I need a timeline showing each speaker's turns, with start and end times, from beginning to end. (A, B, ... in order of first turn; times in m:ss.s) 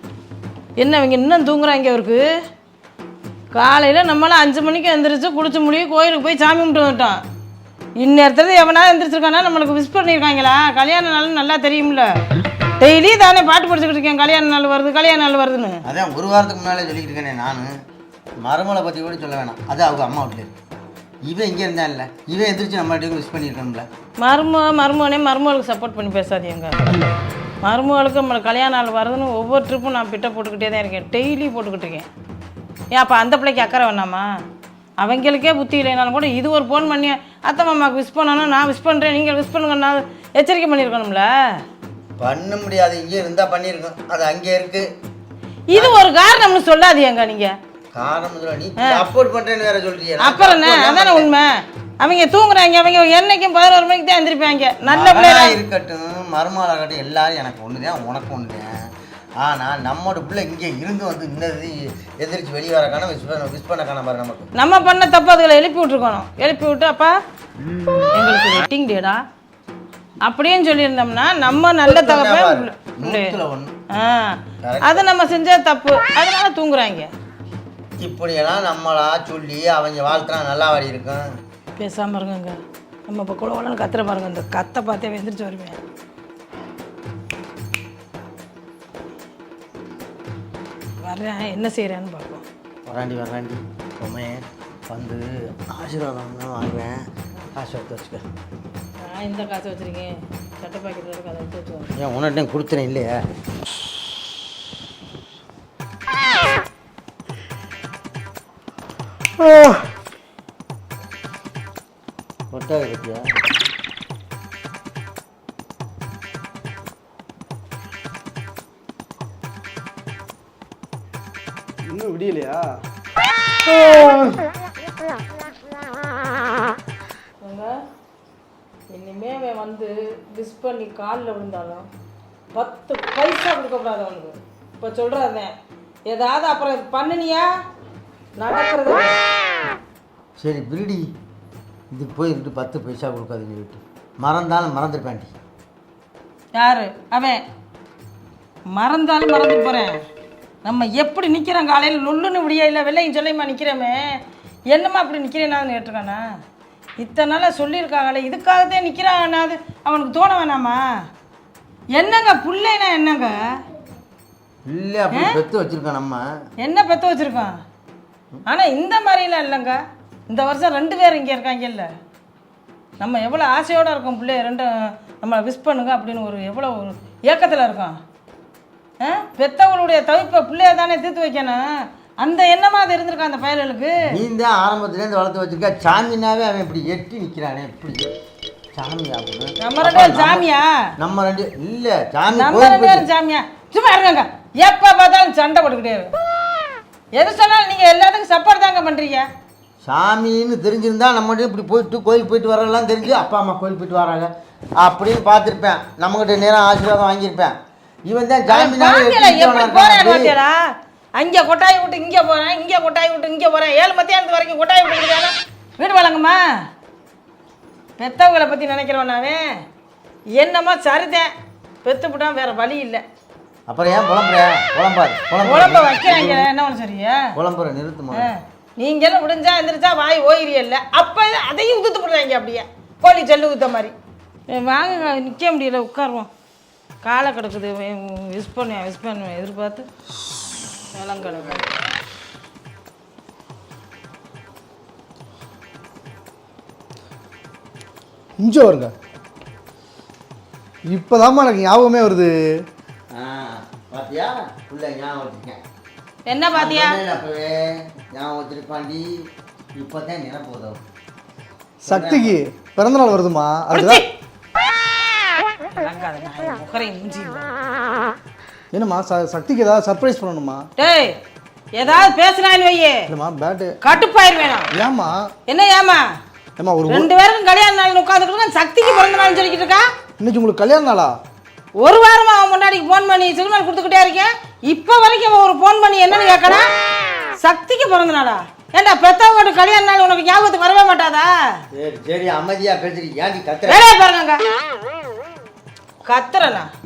0:00.8-0:02.3 A
0:03.5-0:07.2 A
0:08.0-0:12.1 A
0:12.8-0:15.8 A
0:15.9-0:17.7 B
0:18.4-0:20.6 B
0:21.3-0:23.9 B
0:24.2-0:27.0 A
0:27.6-0:32.1 A
0:32.9-0:34.3 A
0:35.0-0:41.3 A
0:42.2-0:44.9 B
0:45.7-0:47.6 A
0:45.7-0:46.0 B
0:47.9-0:51.3 B
0:50.2-0:55.6 A
0:54.9-0:58.7 B
0:59.4-1:04.5 B
1:04.6-1:07.2 A
1:08.1-1:09.2 A
1:10.2-1:13.4 A
1:11.5-1:13.7 B
1:13.9-1:17.1 A
1:14.6-1:15.1 B
1:18.0-1:21.2 B
1:21.8-1:25.8 A
1:31.0-1:32.5 A
1:32.9-1:37.0 B
1:37.5-1:38.2 B
1:39.0-1:41.9 A
1:42.0-1:43.2 B
1:52.5-1:53.3 B
2:01.9-2:02.7 C
2:03.8-2:04.4 C
2:07.4-2:07.8 A
2:08.9-2:11.9 A
2:12.5-2:15.5 A
2:16.1-2:17.5 A
2:18.4-2:19.2 A
2:20.4-2:21.1 B
2:21.9-2:25.3 B
2:26.6-2:27.4 A
2:28.7-2:30.0 A
2:30.6-2:34.2 A
2:34.7-2:36.3 A
2:37.0-2:40.9 A
2:41.9-2:43.6 A
2:44.7-2:46.2 B
2:46.6-2:47.6 A
2:48.5-2:51.9 A
2:53.0-2:58.0 A
2:59.0-3:04.1 A
3:04.1-3:08.1 B
3:08.8-3:10.4 B
3:09.6-3:10.7 A
3:11.0-3:13.1 B
3:12.3-3:16.1 A
3:17.1-3:19.3 A
3:19.8-3:27.6 B
3:28.1-3:30.3 B
3:28.5-3:30.6 A
3:31.2-3:36.4 A
3:38.0-3:39.5 A
3:40.4-3:41.3 A
3:41.8-3:43.0 A
3:43.7-3:46.5 B
3:45.4-3:47.3 A
3:47.4-3:48.3 B
3:48.1-3:54.0 A
3:54.5-3:56.3 A
3:57.0-3:59.9 A
4:00.9-4:01.7 A
4:08.4-4:08.9 C
4:10.9-4:12.6 C
4:13.1-4:15.6 B
4:16.3-4:17.0 A
4:16.5-4:19.1 B
4:19.8-4:20.8 B
4:21.8-4:24.0 C
4:21.9-4:22.4 B
4:23.7-4:24.1 A
4:25.7-4:27.5 A
4:28.7-4:30.7 C
4:30.8-4:31.2 A
4:31.8-4:33.1 A
4:33.1-4:33.8 C
4:33.8-4:34.7 A
4:34.7-4:35.3 C
4:35.5-4:36.1 A
4:36.6-4:37.1 C
4:36.9-4:39.9 A
4:40.2-4:41.2 C
4:41.8-4:46.7 A
4:47.4-4:51.4 A
4:51.7-4:53.8 B
4:53.7-4:54.4 A
4:56.0-4:56.7 A